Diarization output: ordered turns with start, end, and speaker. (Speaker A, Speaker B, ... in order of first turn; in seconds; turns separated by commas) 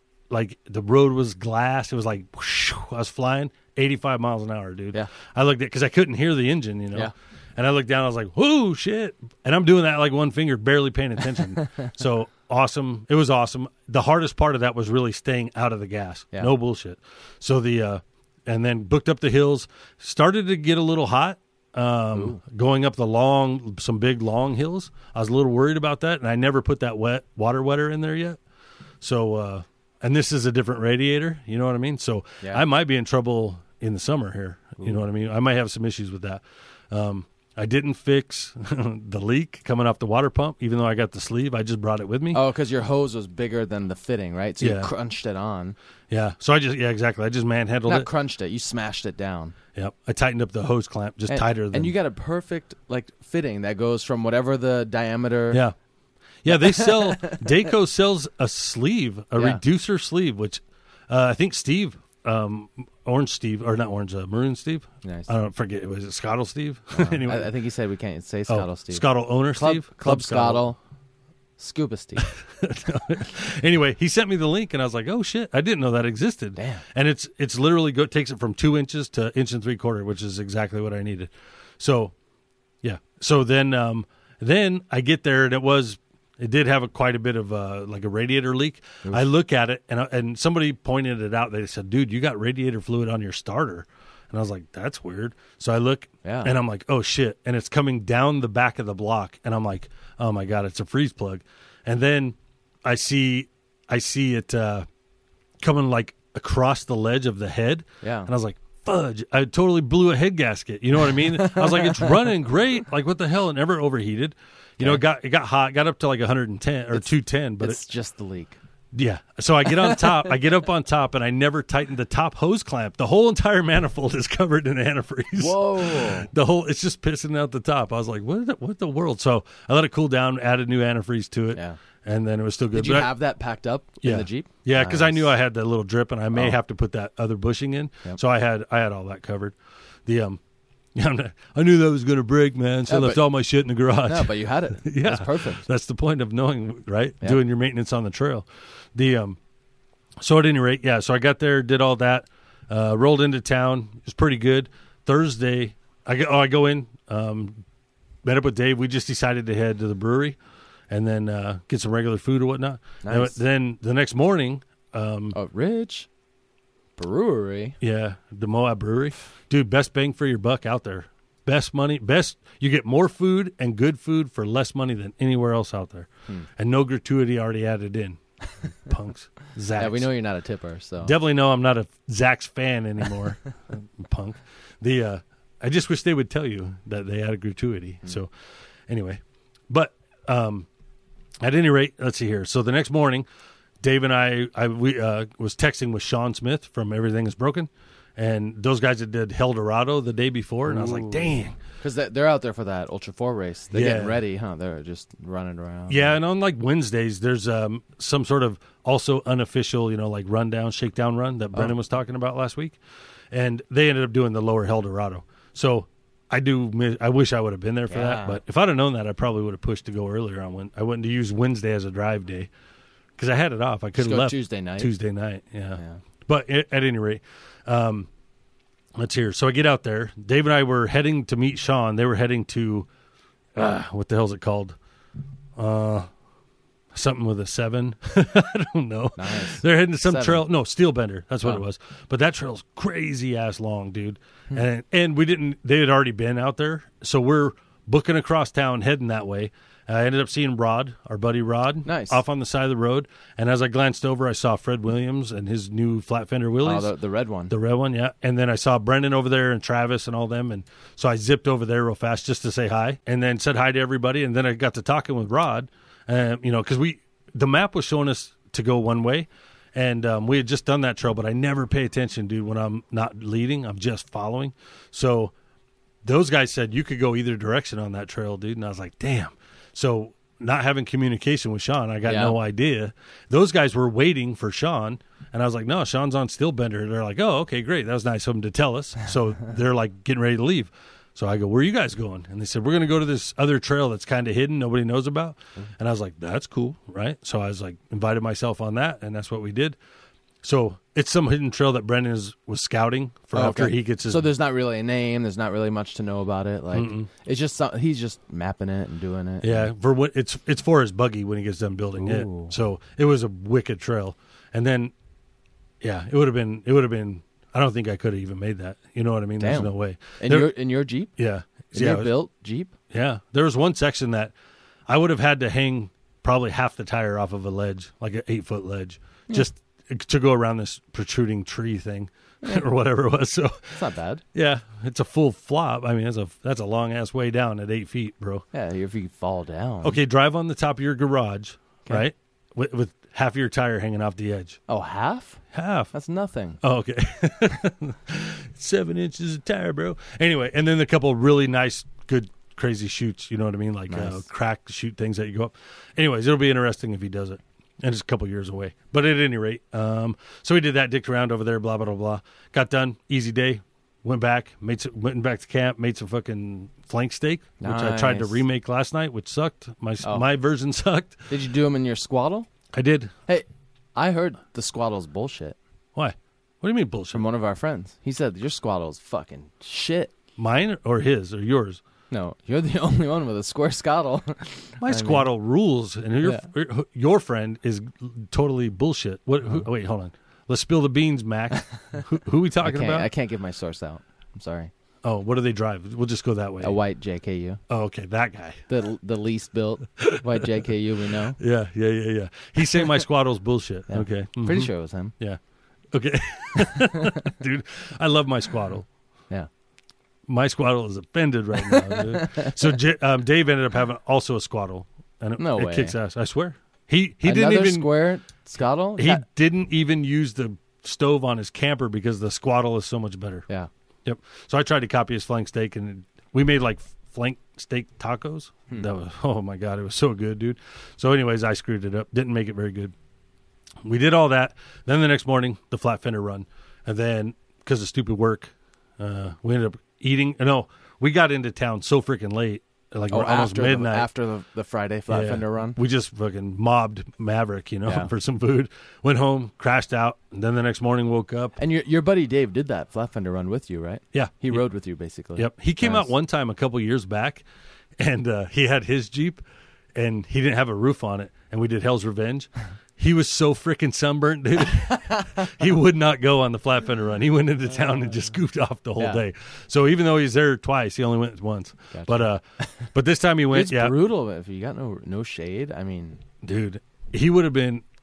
Speaker A: 0.3-28.4, Speaker B: 22.1-22.4, Speaker A: 29.0-42.4, Speaker B: 42.3-45.8, Speaker A: 44.6-44.9, Speaker A: 46.1-48.1, Speaker B: 47.9-49.5, Speaker A: 49.8-52.0, Speaker B: 51.3-55.6, Speaker A: 56.4-67.5, Speaker B: 56.5-57.6, Speaker B: 59.4-59.6, Speaker B: 65.0-65.3, Speaker B: 66.9-70.8, Speaker A: 68.5-70.7, Speaker B: 71.6-72.3, Speaker A: 72.2-82.1, Speaker B: 76.6-76.8, Speaker A: 82.8-104.9, Speaker B: 96.2-96.5, Speaker A: 105.6-117.8, Speaker B: 108.0-108.3, Speaker B: 111.1-112.2, Speaker B: 116.9-118.6, Speaker A: 118.9-133.1, Speaker B: 125.4-126.3, Speaker B: 131.5-131.8, Speaker B: 132.7-135.3, Speaker A: 134.0-139.6, Speaker A: 140.1-140.4, Speaker A: 141.0-149.4, Speaker B: 142.9-143.2, Speaker B: 144.1-145.6, Speaker A: 150.2-157.6, Speaker A: 158.2-160.4, Speaker A: 160.9-165.4, Speaker B: 163.0-163.4, Speaker B: 165.3-166.1, Speaker B: 167.0-167.8, Speaker A: 167.8-180.1, Speaker B: 179.8-181.1, Speaker A: 181.0-188.3, Speaker A: 188.9-190.7, Speaker A: 191.4-193.3, Speaker A: 193.8-201.6, Speaker B: 200.7-206.2, Speaker A: 203.7-204.2, Speaker A: 205.9-212.8, Speaker A: 213.3-222.5, Speaker B: 217.9-218.4, Speaker A: 223.2-228.1, Speaker B: 224.0-224.9, Speaker A: 229.0-232.9, Speaker A: 233.6-234.8, Speaker A: 235.6-236.1, Speaker A: 236.9-256.9, Speaker B: 239.2-240.5, Speaker B: 251.8-252.2, Speaker B: 256.6-257.5, Speaker A: 257.5-275.3, Speaker A: 276.0-299.8, Speaker B: 282.1-282.4, Speaker A: 300.4-304.3, Speaker B: 303.3-309.7, Speaker A: 306.7-307.1, Speaker A: 309.4-314.9, Speaker B: 312.0-312.5, Speaker A: 315.8-320.5, Speaker B: 319.4-321.1, Speaker A: 321.2-322.1, Speaker B: 321.7-322.7, Speaker A: 322.9-324.3, Speaker A: 324.9-338.4, Speaker B: 333.8-334.2, Speaker B: 338.5-340.0, Speaker A: 339.8-344.6, Speaker B: 344.7-345.4, Speaker A: 345.5-345.9, Speaker B: 345.9-346.6, Speaker A: 346.6-371.3, Speaker B: 353.9-354.3, Speaker B: 367.6-368.4, Speaker B: 370.0-370.3, Speaker B: 371.3-372.5, Speaker A: 372.7-373.1, Speaker B: 373.3-375.6, Speaker A: 375.9-377.2, Speaker B: 377.1-380.1, Speaker A: 380.4-381.8, Speaker B: 382.1-385.3, Speaker A: 384.8-393.1, Speaker B: 392.6-394.7, Speaker A: 395.0-396.8, Speaker B: 396.6-397.6, Speaker A: 397.7-398.6, Speaker B: 398.7-401.4, Speaker A: 400.0-400.5, Speaker A: 401.4-405.4, Speaker B: 403.9-405.1, Speaker A: 405.9-408.9, Speaker B: 406.6-407.1, Speaker A: 410.3-418.0, Speaker B: 411.6-412.7, Speaker B: 415.4-416.0, Speaker B: 417.2-419.2, Speaker A: 419.0-423.5, Speaker A: 424.1-432.9, Speaker A: 433.9-444.1, Speaker B: 443.1-445.8, Speaker A: 445.1-451.6, Speaker B: 447.9-448.1, Speaker B: 451.6-456.1, Speaker A: 454.1-454.6, Speaker A: 455.4-457.4, Speaker A: 458.0-459.4, Speaker A: 460.0-472.4, Speaker B: 469.0-469.2, Speaker B: 471.9-472.7, Speaker A: 472.9-474.0, Speaker B: 473.5-476.2, Speaker A: 476.4-477.8